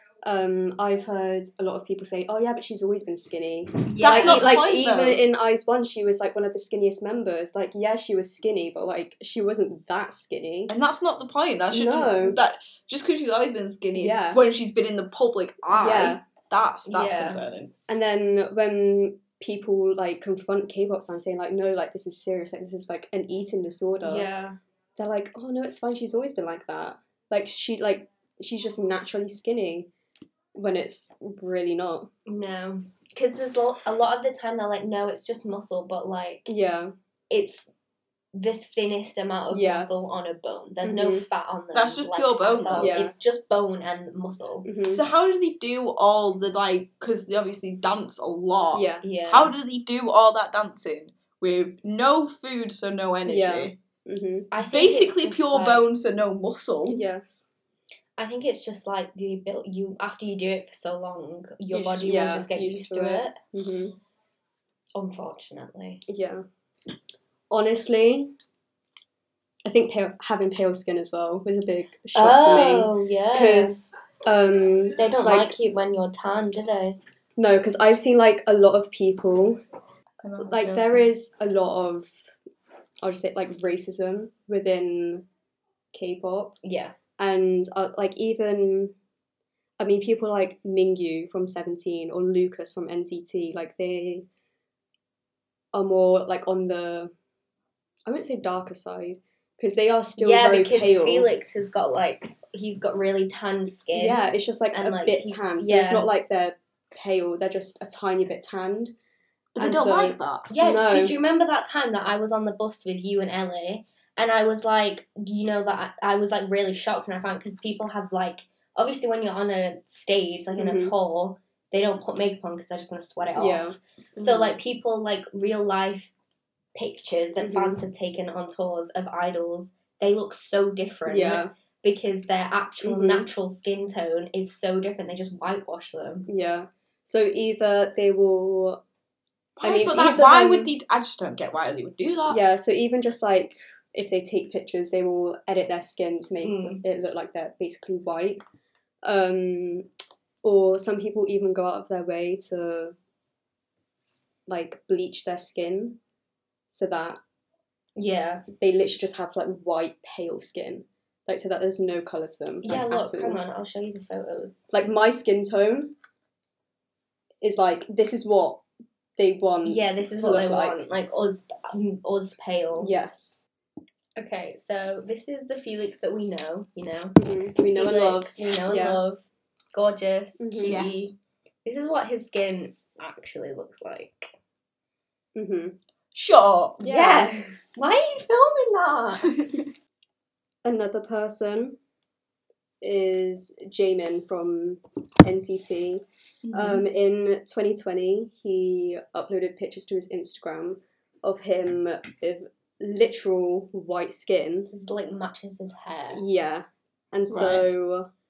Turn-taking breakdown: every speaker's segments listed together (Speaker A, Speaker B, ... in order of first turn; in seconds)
Speaker A: 0.2-10.7, 11.7-12.4, 13.9-14.4, 15.7-16.2, 17.9-24.3, 25.0-29.9, 30.6-32.1, 36.5-36.9, 39.5-40.1, 40.8-41.3, 42.8-43.1, 44.6-45.0, 48.7-49.5, 53.3-54.5, 56.9-57.5, 61.7-64.0, 66.1-66.5, 67.5-68.3, 69.7-75.5, 77.4-79.6, 80.4-82.2, 83.0-85.3, 85.9-86.6, 87.2-88.9, 89.8-94.3, 95.7-97.1, 98.1-101.3, 103.9-109.0, 109.6-111.2, 120.6-121.0, 123.4-124.6, 127.4-127.8, 131.1-131.5, 132.8-133.3, 136.3-138.8, 139.6-140.7, 142.3-148.4, 149.0-149.9, 150.4-153.0, 154.5-156.0, 156.7-157.2, 158.6-163.5, 164.7-165.9, 167.4-168.6, 169.2-170.8, 172.8-173.4, 177.2-179.2, 180.4-180.8, 185.3-185.8, 186.8-187.6, 190.6-191.8, 192.8-204.7, 206.1-208.1
Speaker B: 3.9-4.6, 16.9-17.4, 24.0-24.6, 32.3-36.5, 37.3-37.7, 38.3-44.7, 49.0-49.5, 54.5-55.9, 58.2-63.4, 65.0-66.0, 72.2-73.8, 75.0-77.0, 86.6-87.0, 100.2-106.1, 110.5-126.1, 126.8-136.3, 146.4-146.8, 158.0-158.5, 162.6-164.7, 169.6-172.9, 174.2-184.3, 186.8-189.3, 204.7-206.2
Speaker C: 4.0-5.2, 10.7-17.7, 41.7-43.0, 44.9-53.8, 54.6-57.0, 80.2-81.1, 109.6-110.5, 139.6-142.4, 180.7-181.2, 186.2-186.8, 189.3-189.6, 196.4-196.9, 207.3-207.7